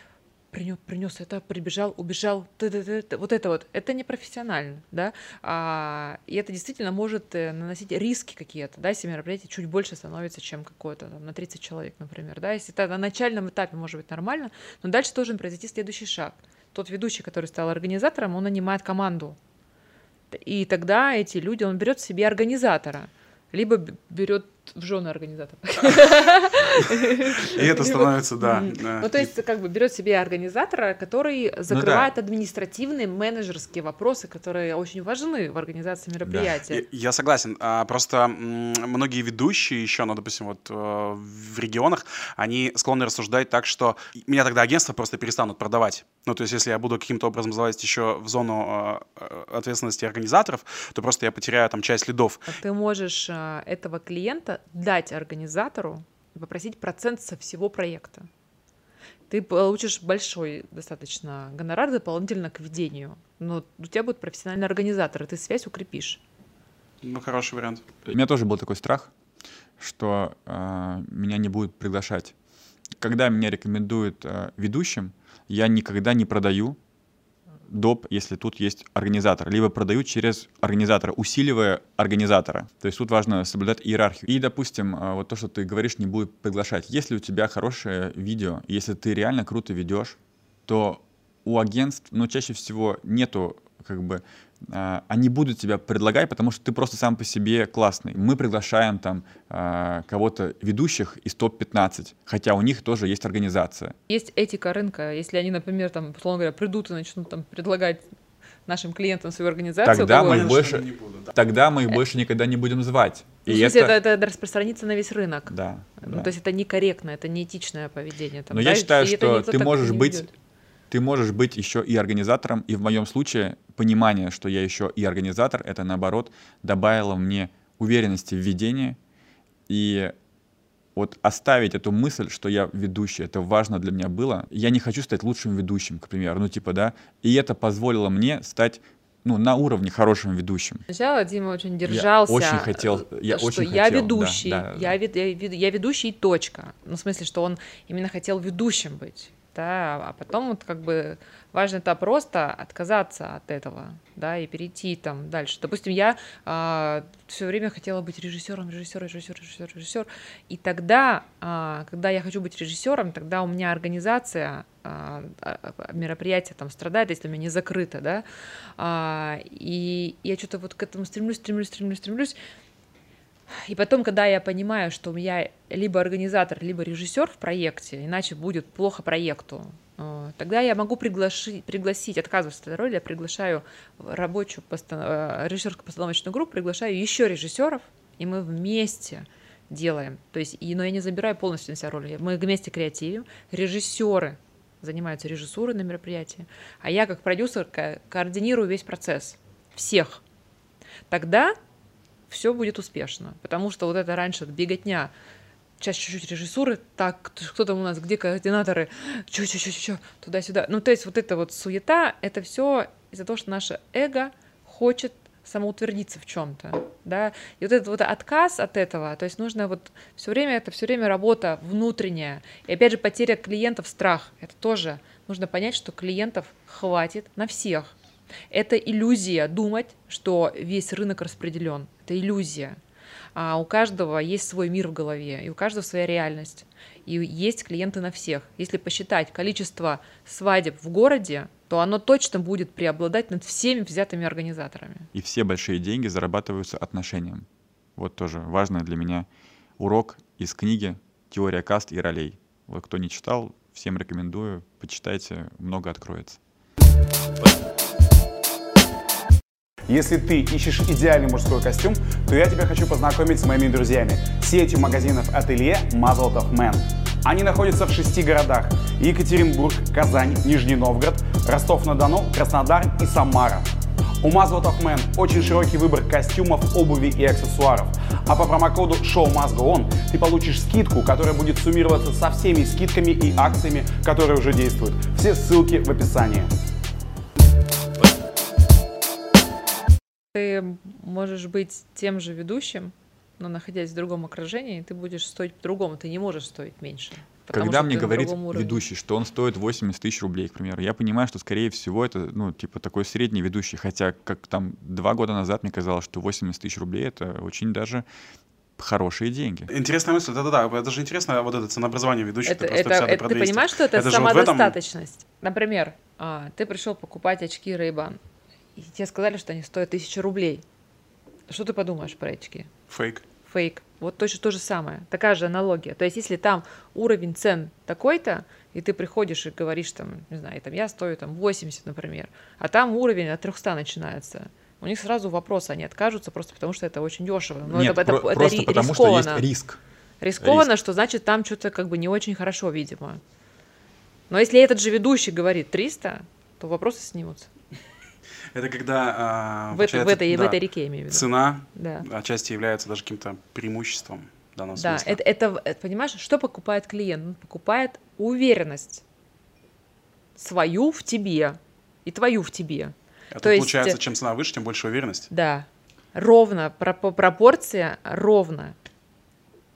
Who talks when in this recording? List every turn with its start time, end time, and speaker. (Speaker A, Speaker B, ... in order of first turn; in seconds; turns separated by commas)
Speaker A: 0.5-19.4, Speaker A: 20.3-36.8, Speaker B: 26.9-29.3, Speaker C: 31.7-32.1, Speaker C: 36.2-36.6, Speaker B: 36.7-52.5, Speaker A: 52.5-58.3, Speaker A: 59.3-66.2, Speaker B: 67.0-67.8, Speaker C: 68.1-69.1, Speaker C: 69.8-72.3, Speaker C: 73.0-76.8, Speaker C: 77.7-104.0, Speaker A: 104.1-108.0, Speaker A: 108.7-110.5, Speaker C: 109.8-113.9, Speaker B: 109.9-111.3, Speaker A: 113.5-120.3, Speaker C: 115.5-116.3, Speaker C: 118.5-120.3, Speaker C: 120.9-129.0, Speaker C: 129.7-130.1, Speaker C: 130.9-140.8, Speaker A: 140.9-168.2, Speaker C: 141.8-144.9, Speaker A: 168.8-172.3, Speaker A: 173.6-200.2, Speaker A: 201.1-201.5, Speaker A: 202.3-205.1, Speaker A: 205.8-227.9, Speaker A: 228.5-232.8, Speaker A: 233.3-245.1, Speaker C: 245.1-247.4, Speaker C: 248.0-249.3, Speaker C: 249.8-256.4, Speaker D: 259.9-273.7, Speaker D: 274.2-286.5, Speaker A: 290.3-298.8, Speaker C: 297.5-308.0, Speaker C: 308.8-309.7, Speaker B: 309.7-314.7, Speaker A: 312.4-318.2, Speaker A: 318.8-320.6, Speaker A: 321.5-322.7, Speaker B: 322.9-323.2, Speaker A: 323.4-339.4, Speaker C: 337.7-339.8, Speaker A: 340.2-343.2, Speaker C: 340.4-340.7, Speaker A: 344.3-347.5, Speaker B: 348.5-355.2, Speaker A: 349.7-352.1, Speaker A: 354.8-359.0, Speaker A: 360.4-364.0, Speaker B: 363.3-365.3, Speaker A: 365.3-368.8